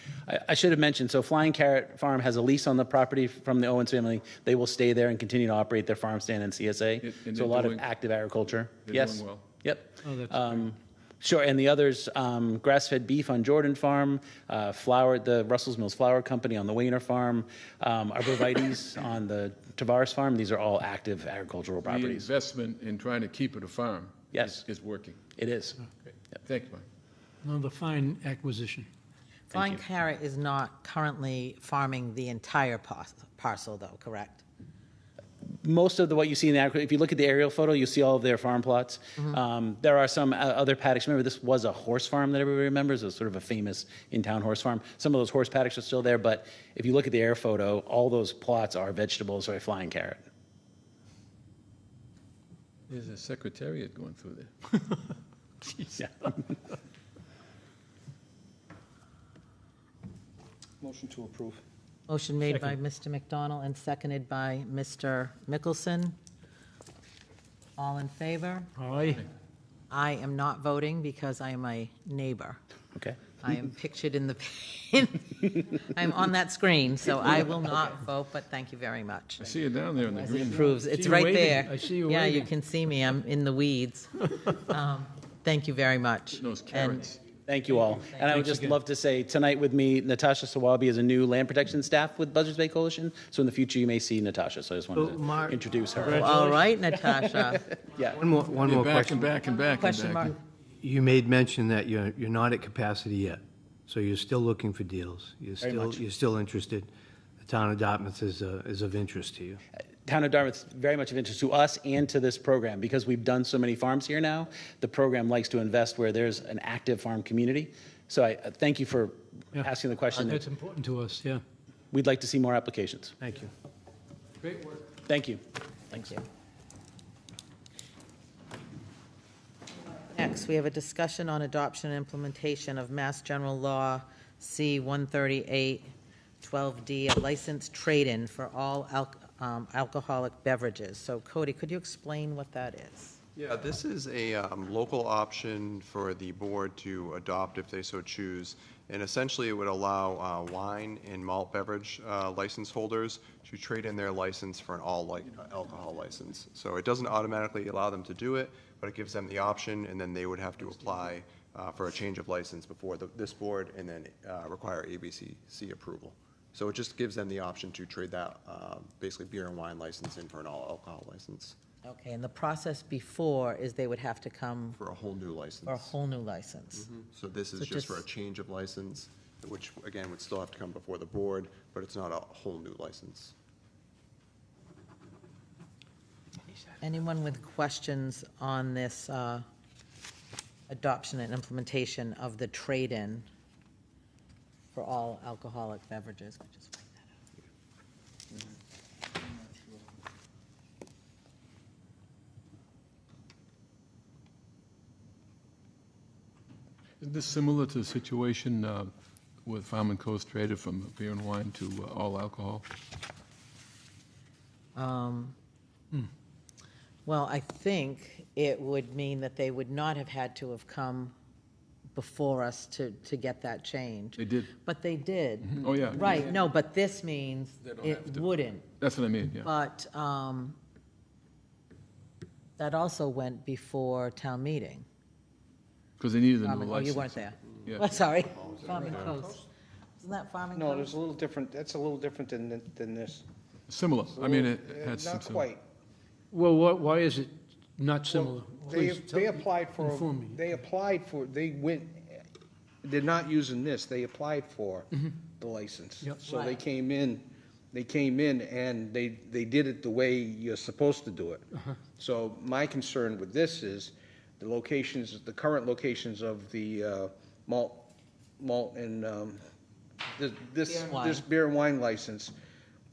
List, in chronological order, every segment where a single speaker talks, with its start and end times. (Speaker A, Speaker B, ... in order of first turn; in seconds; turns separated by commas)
Speaker A: 0.3-22.3, Speaker B: 7.0-7.8, Speaker B: 8.9-9.5, Speaker B: 21.8-25.2, Speaker A: 24.3-24.6, Speaker A: 25.4-25.8, Speaker B: 26.4-26.8, Speaker C: 27.4-28.9, Speaker D: 29.5-34.4, Speaker A: 29.5-29.8, Speaker A: 35.6-50.2, Speaker B: 52.9-54.6, Speaker A: 56.0-56.3, Speaker E: 60.8-61.6, Speaker D: 62.1-66.1, Speaker D: 67.8-68.7, Speaker C: 68.8-69.2, Speaker D: 69.9-72.6, Speaker D: 73.4-87.1, Speaker B: 79.4-80.7, Speaker C: 80.6-82.5, Speaker B: 86.4-87.1, Speaker A: 87.5-96.4, Speaker C: 88.2-88.8, Speaker F: 95.0-96.6, Speaker D: 96.1-97.7, Speaker A: 97.9-98.2, Speaker F: 98.2-99.4, Speaker B: 98.6-100.3, Speaker D: 99.7-100.3, Speaker F: 100.8-106.9, Speaker A: 105.6-106.0, Speaker F: 107.4-109.6, Speaker A: 110.0-120.4, Speaker C: 119.5-121.4, Speaker A: 121.9-123.1, Speaker F: 123.2-123.5, Speaker A: 125.1-126.2, Speaker D: 130.1-143.2, Speaker G: 143.3-171.6, Speaker D: 171.8-174.8, Speaker G: 174.8-175.9, Speaker D: 175.7-176.9, Speaker G: 176.9-183.3, Speaker D: 177.6-178.0, Speaker D: 186.8-189.4, Speaker D: 190.7-193.2, Speaker D: 194.7-197.1, Speaker B: 207.0-208.9, Speaker B: 209.4-212.6, Speaker D: 214.8-215.3, Speaker D: 217.1-221.1, Speaker D: 221.9-228.7, Speaker B: 224.2-224.5, Speaker B: 225.6-226.2, Speaker B: 227.7-228.2, Speaker B: 228.8-229.5, Speaker D: 229.4-230.6, Speaker D: 232.6-234.8, Speaker B: 236.0-237.9, Speaker D: 236.4-239.4, Speaker G: 237.9-239.2, Speaker E: 238.7-239.3, Speaker D: 240.0-240.9, Speaker E: 240.5-243.2, Speaker B: 243.7-245.5, Speaker E: 244.1-245.6, Speaker C: 246.3-250.5, Speaker E: 248.1-252.1, Speaker E: 252.8-267.9, Speaker D: 256.3-256.6, Speaker E: 268.4-269.4, Speaker E: 270.1-272.3, Speaker D: 270.6-271.2